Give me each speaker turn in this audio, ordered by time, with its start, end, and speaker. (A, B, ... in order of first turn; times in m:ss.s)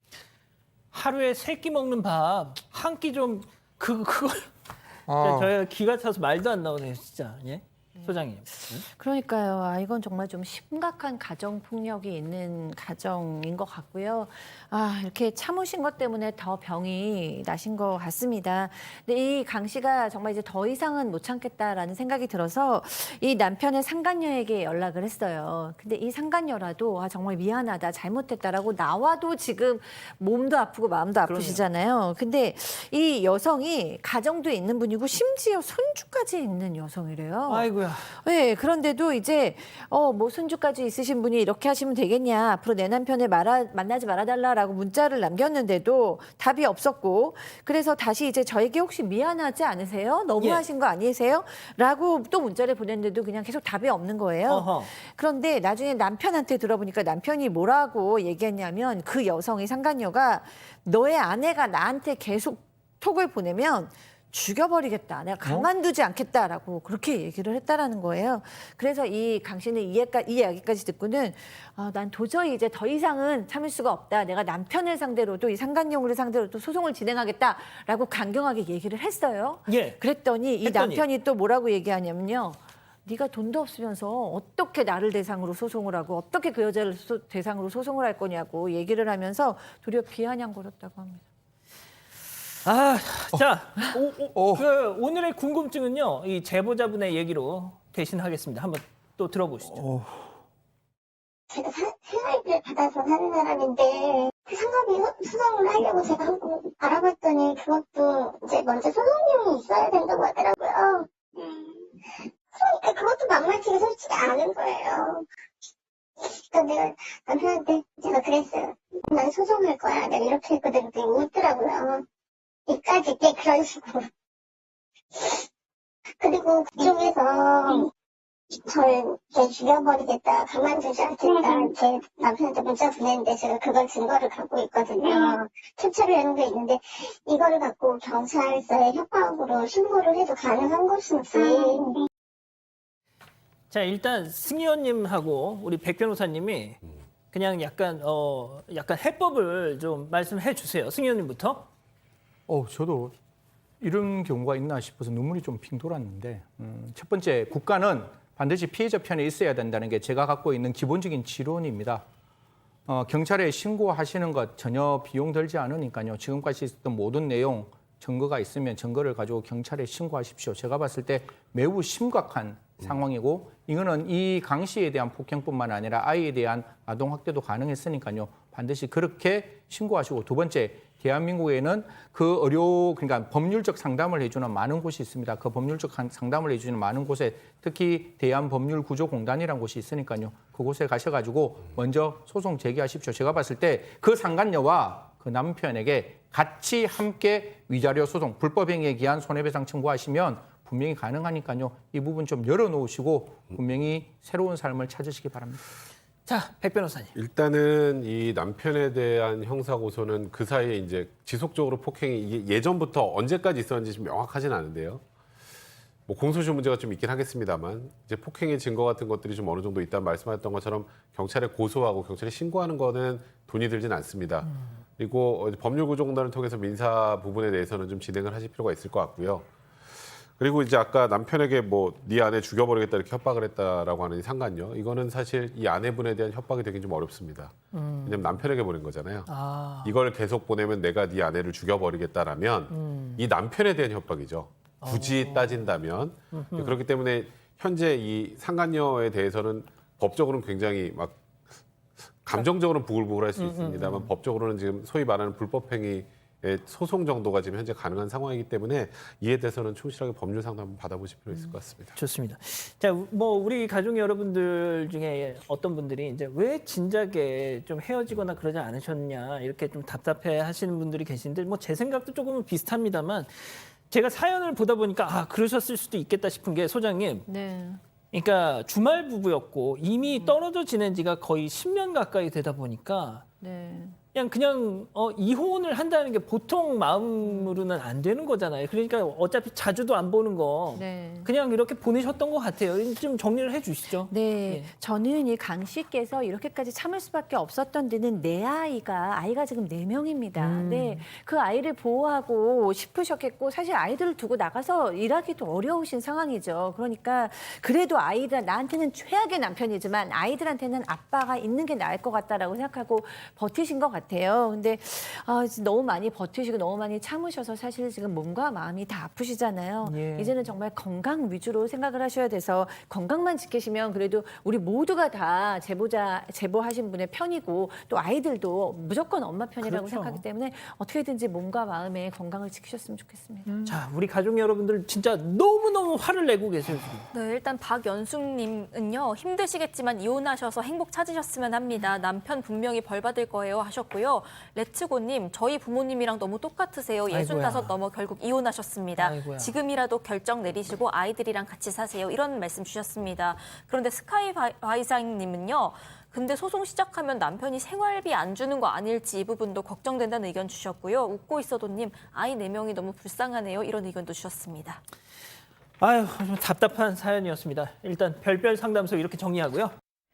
0:00.9-0:04.5 A
0:05.1-0:05.5 B
0:05.2-0:08.8 A
0:08.7-1:31.2 C
0:31.2-0:31.6 A
0:37.5-0:38.1 A
0:50.4-0:50.6 A
0:54.4-0:54.9 A
1:19.7-1:20.0 A
1:20.6-1:21.0 A
1:32.6-1:39.8 A
1:34.3-1:34.6 B
1:39.8-1:40.2 B
1:41.5-1:55.2 D
1:56.2-2:02.0 D
2:02.7-2:04.1 D
2:05.1-2:05.4 D
2:06.2-2:07.8 D
2:08.6-2:22.0 D
2:23.7-2:26.8 A
2:27.3-2:31.7 A
2:32.5-2:33.1 B
2:33.8-2:42.0 B
2:42.9-3:25.6 B
3:26.2-3:27.1 A
3:27.2-3:35.0 E
3:36.1-3:49.5 E
3:50.4-3:59.3 E
3:57.7-3:58.2 A
3:59.3-4:00.0 A
3:59.8-4:11.2 E
4:02.7-4:03.2 A
4:04.8-4:05.6 A
4:06.3-4:06.8 A
4:12.2-4:22.0 E
4:13.4-4:14.1 A
4:22.0-4:37.2 A
4:37.2-4:37.8 C
4:38.1-4:43.2 A
4:43.4-4:44.0 C
4:44.1-4:54.7 A
4:47.2-4:47.5 C
4:50.8-4:51.3 C
4:54.1-5:33.7 C
5:00.4-5:01.0 A
5:19.8-5:20.3 A
5:29.6-5:30.2 A
5:33.5-5:37.1 A
5:37.1-6:04.8 F
5:47.1-5:47.7 A
5:49.0-5:49.5 A
6:05.8-6:09.8 A